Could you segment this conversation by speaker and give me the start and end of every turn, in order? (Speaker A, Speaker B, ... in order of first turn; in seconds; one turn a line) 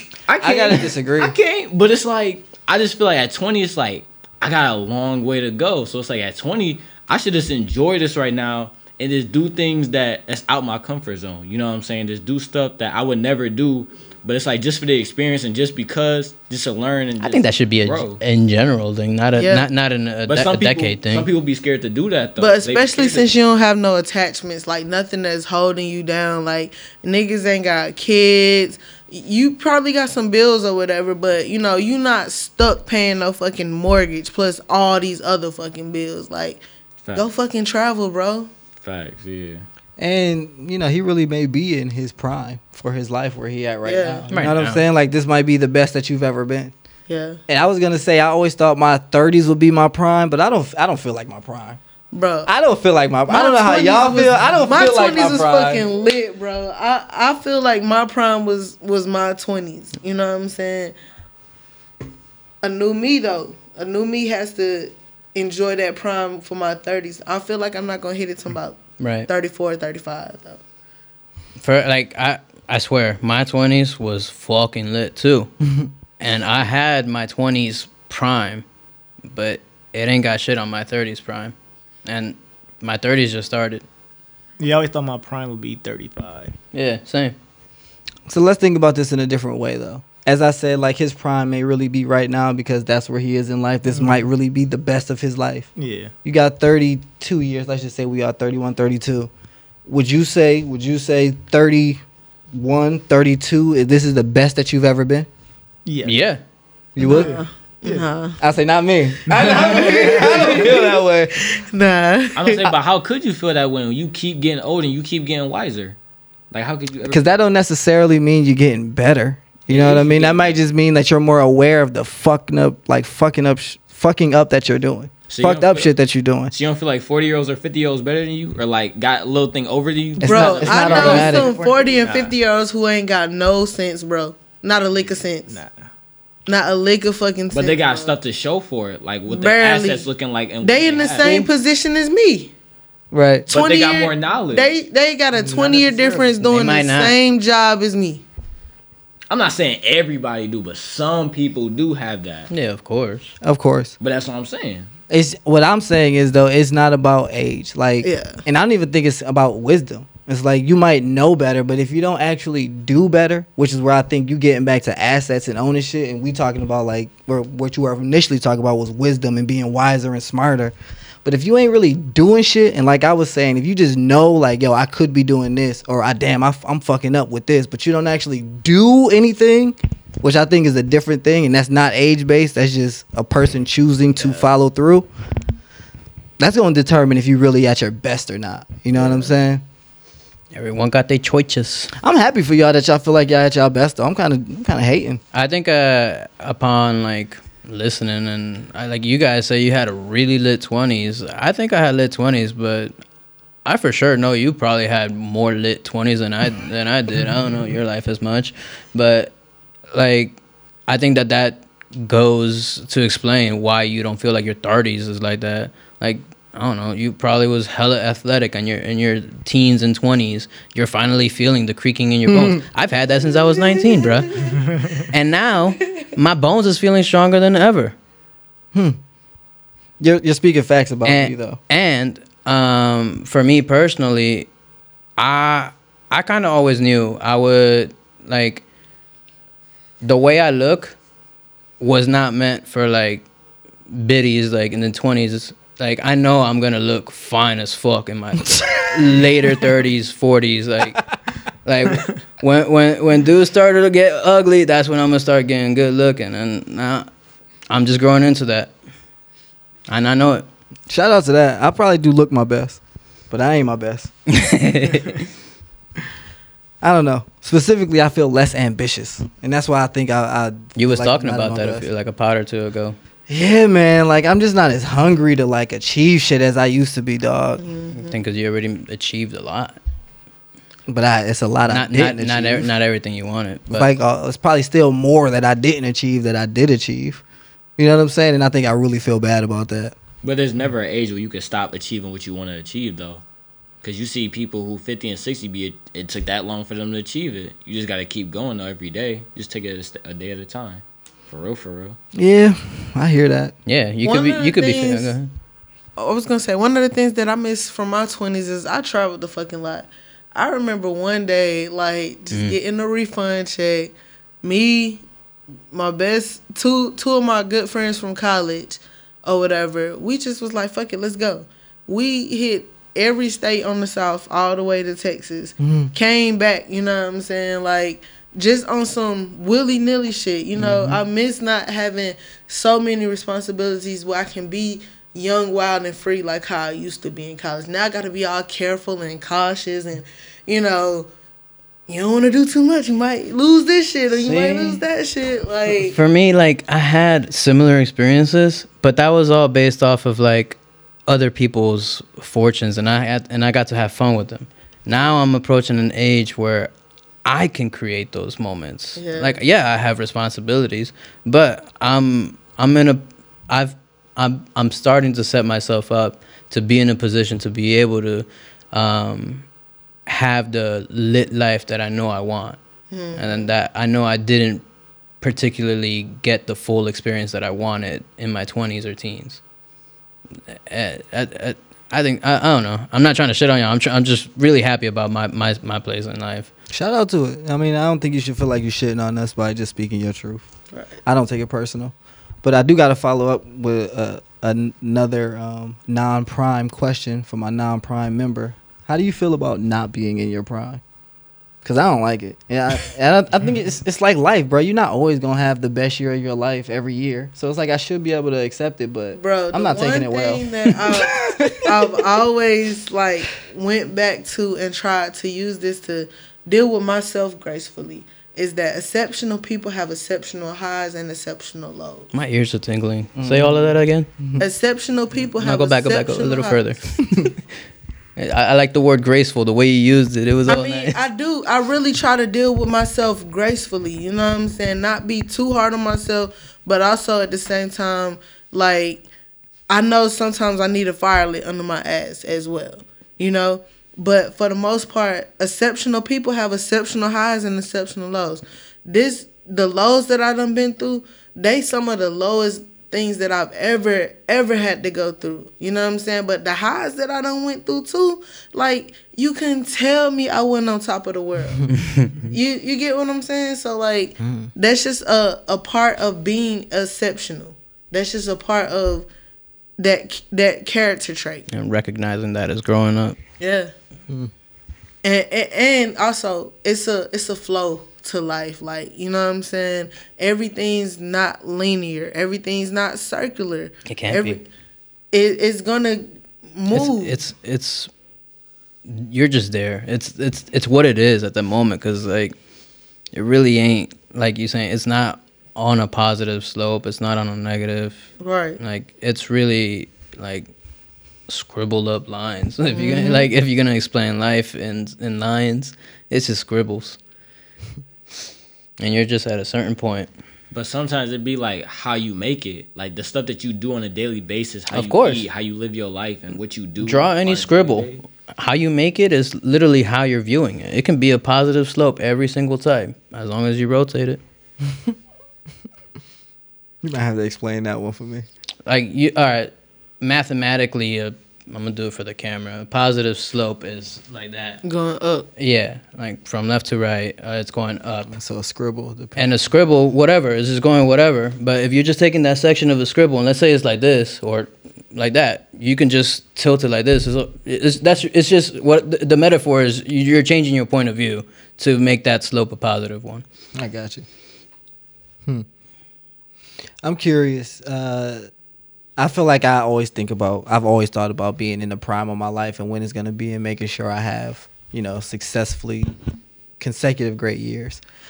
Speaker A: 0.3-18.2
Speaker B: 0.4-1.3
Speaker C: 17.2-21.3
Speaker D: 19.4-19.7
Speaker A: 20.3-23.3
Speaker D: 22.4-36.6
Speaker D: 37.1-38.5
Speaker A: 38.8-39.6
Speaker B: 40.0-46.7
Speaker D: 43.8-44.3
Speaker C: 44.3-44.8
Speaker D: 47.1-47.4
Speaker B: 47.5-51.8
Speaker D: 52.1-52.5
Speaker B: 52.5-55.8
Speaker D: 53.3-60.9
Speaker D: 62.6-70.6
Speaker C: 69.0-69.3
Speaker C: 71.6-75.5
Speaker C: 76.2-78.6
Speaker C: 79.2-83.8
Speaker E: 84.6-86.5
Speaker C: 86.7-87.3
Speaker B: 88.3-95.7
Speaker E: 93.9-94.2
Speaker E: 95.8-96.1
Speaker B: 96.2-99.3
Speaker B: 99.8-105.3
Speaker E: 105.8-106.2
Speaker C: 106.0-106.4
Speaker B: 106.9-107.3
Speaker E: 107.0-108.1
Speaker D: 107.0-108.4
Speaker B: 108.4-111.3
Speaker E: 109.3-110.4
Speaker D: 109.7-111.0
Speaker D: 111.5-112.7
Speaker A: 112.3-116.0
Speaker A: 116.5-117.3
Speaker B: 117.1-126.5
Speaker A: 119.7-120.6
Speaker A: 125.3-125.9
Speaker A: 126.5-131.3
Speaker B: 130.2-131.5
Speaker D: 130.2-135.6
Speaker E: 130.6-132.3
Speaker E: 135.0-135.8
Speaker D: 136.5-138.1
Speaker A: 137.5-141.3
Speaker D: 139.3-140.1
Speaker D: 140.6-142.5
Speaker B: 141.2-141.5
Speaker B: 143.1-143.5
Speaker A: 143.5-144.7
Speaker D: 143.5-148.2
Speaker E: 145.3-146.3
Speaker C: 146.4-147.1
Speaker A: 149.3-152.5
Speaker C: 152.5-153.3
Speaker B: 153.4-153.9
Speaker A: 154.0-154.9
Speaker B: 155.1-185.1
Speaker D: 158.0-158.4
Speaker B: 186.4-189.6
Speaker C: 190.5-191.9
Speaker B: 192.0-195.2
Speaker C: 195.3-202.9
Speaker C: 203.6-209.3
Speaker C: 209.9-224.4
Speaker B: 222.3-222.6
Speaker D: 223.5-224.5
Speaker E: 224.6-225.0
Speaker C: 225.0-227.9
Speaker B: 228.7-229.0
Speaker B: 230.0-231.6
Speaker C: 231.0-234.5
Speaker C: 235.2-238.6
Speaker C: 240.0-241.0
Speaker C: 241.8-243.2
Speaker C: 243.9-251.0
Speaker C: 251.6-257.1
Speaker C: 257.7-258.7
Speaker C: 259.9-260.4
Speaker B: 260.9-262.8
Speaker B: 263.3-264.1
Speaker C: 264.3-265.2
Speaker B: 266.8-271.9
Speaker C: 270.8-273.0
Speaker B: 273.3-277.6
Speaker D: 277.6-278.1
Speaker C: 277.9-279.8
Speaker B: 280.9-282.7
Speaker C: 281.7-283.9
Speaker B: 283.7-287.2
Speaker B: 287.8-289.9
Speaker A: 290.2-293.2
Speaker A: 293.8-302.0
Speaker B: 302.1-303.5
Speaker C: 303.6-305.3
Speaker D: 304.0-305.1
Speaker D: 306.0-315.0
Speaker C: 312.3-312.6
Speaker D: 315.7-341.1
Speaker B: 325.6-325.9
Speaker B: 330.6-331.0
Speaker D: 341.9-345.9
Speaker C: 344.1-344.8
Speaker C: 345.8-356.7
Speaker C: 357.2-369.4
Speaker D: 358.9-359.4
Speaker C: 370.1-372.6
Speaker D: 372.9-373.5
Speaker C: 373.1-374.6
Speaker C: 375.2-379.4
Speaker C: 380.5-386.5
Speaker B: 386.7-390.4
Speaker B: 391.0-400.8
Speaker B: 401.6-412.0
Speaker D: 409.1-422.1
Speaker C: 422.1-424.1
Speaker B: 423.1-424.4
Speaker D: 424.4-426.6
Speaker C: 425.4-427.3
Speaker C: 428.1-431.0
Speaker D: 430.5-439.1
Speaker D: 439.7-461.7
Speaker C: 461.8-462.1
Speaker D: 462.3-469.1
Speaker B: 464.2-464.5
Speaker D: 469.8-471.4
Speaker C: 471.5-473.2
Speaker D: 473.4-473.7
Speaker D: 475.0-484.5
Speaker C: 483.9-484.4
Speaker D: 485.1-487.2
Speaker C: 486.7-487.9
Speaker C: 488.9-492.4
Speaker C: 493.1-500.5
Speaker D: 498.2-498.6
Speaker C: 501.3-507.0
Speaker D: 502.7-503.3
Speaker C: 508.8-510.1
Speaker A: 510.5-518.0
Speaker C: 514.7-515.2
Speaker C: 516.8-524.2
Speaker B: 526.8-528.2
Speaker C: 528.6-534.6
Speaker D: 534.6-535.3
Speaker C: 535.4-538.1
Speaker B: 538.1-539.2
Speaker C: 539.1-553.2
Speaker B: 553.5-554.0
Speaker B: 556.8-558.2
Speaker B: 559.0-565.9
Speaker B: 566.6-567.8